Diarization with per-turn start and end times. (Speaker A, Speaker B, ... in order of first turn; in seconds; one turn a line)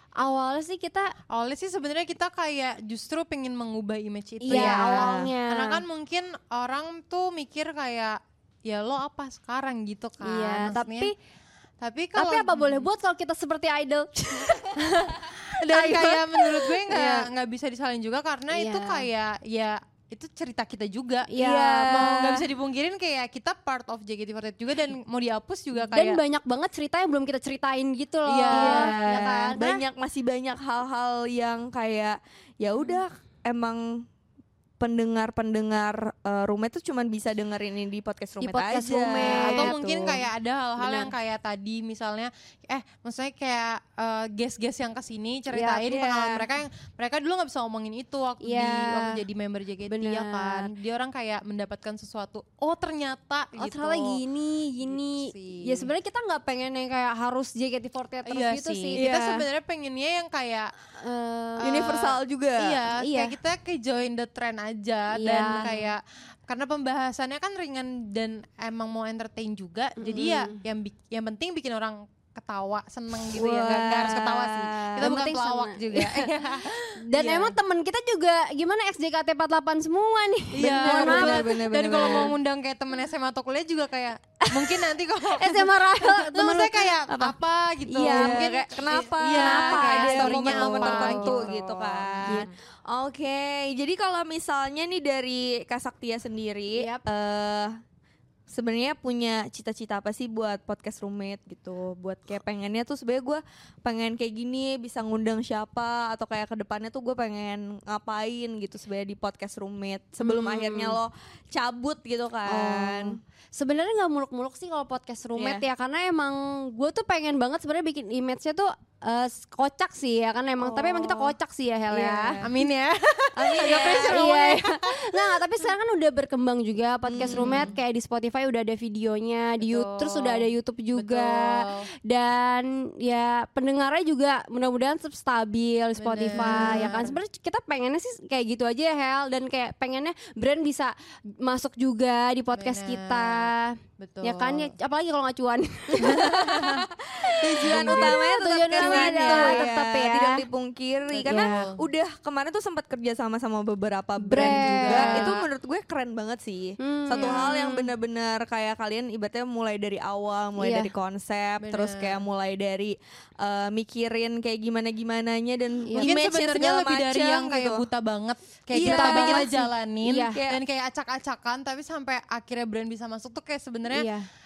Speaker A: 0.2-1.1
Speaker B: 1.3-11.1
Speaker A: 4.4-5.8
Speaker C: 4.5-5.3
Speaker A: 10.2-11.1
Speaker B: 11.8-12.9
Speaker A: 12.2-14.7
Speaker B: 14.8-26.2
Speaker A: 15.7-16.3
Speaker A: 16.9-17.3
Speaker A: 18.5-19.1
Speaker A: 21.3-22.1
Speaker C: 21.4-22.3
Speaker A: 25.8-29.7
Speaker B: 28.2-29.7
Speaker C: 28.5-34.1
Speaker C: 34.8-40.2
Speaker A: 38.4-39.8
Speaker B: 39.2-54.2
Speaker A: 40.8-41.1
Speaker A: 45.5-46.4
Speaker A: 48.4-49.2
Speaker A: 49.9-50.7
Speaker A: 53.6-59.0
Speaker B: 54.8-55.9
Speaker B: 58.3-60.7
Speaker C: 58.9-59.5
Speaker A: 61.0-61.9
Speaker C: 61.6-62.8
Speaker B: 62.6-77.6
Speaker A: 63.0-63.4
Speaker A: 65.1-65.9
Speaker A: 70.0-70.6
Speaker C: 73.3-75.2
Speaker A: 75.0-76.3
Speaker A: 77.0-82.3
Speaker C: 80.6-82.4
Speaker B: 80.6-85.7
Speaker A: 85.3-86.9
Speaker B: 86.3-92.5
Speaker A: 87.9-88.5
Speaker C: 88.1-97.8
Speaker A: 89.2-91.7
Speaker A: 96.8-97.1
Speaker C: 98.5-113.2
Speaker A: 110.2-111.0
Speaker A: 112.5-122.4
Speaker C: 115.4-115.6
Speaker C: 120.6-121.4
Speaker C: 121.9-122.6
Speaker B: 122.4-124.9
Speaker C: 123.4-124.4
Speaker A: 123.5-146.8
Speaker C: 127.1-127.7
Speaker B: 127.2-127.7
Speaker B: 129.6-131.9
Speaker B: 136.0-137.2
Speaker C: 136.3-136.9
Speaker B: 142.6-144.7
Speaker C: 146.0-146.4
Speaker B: 146.0-146.8
Speaker C: 147.4-167.9
Speaker B: 147.6-148.2
Speaker A: 147.6-150.4
Speaker B: 148.7-149.7
Speaker B: 151.1-151.8
Speaker A: 151.3-151.6
Speaker A: 154.3-155.3
Speaker B: 154.3-155.5
Speaker A: 156.8-157.8
Speaker B: 157.1-157.5
Speaker A: 160.6-160.9
Speaker B: 161.6-162.2
Speaker A: 165.8-166.1
Speaker B: 166.0-174.1
Speaker C: 168.7-170.6
Speaker A: 168.8-170.4
Speaker A: 173.9-174.3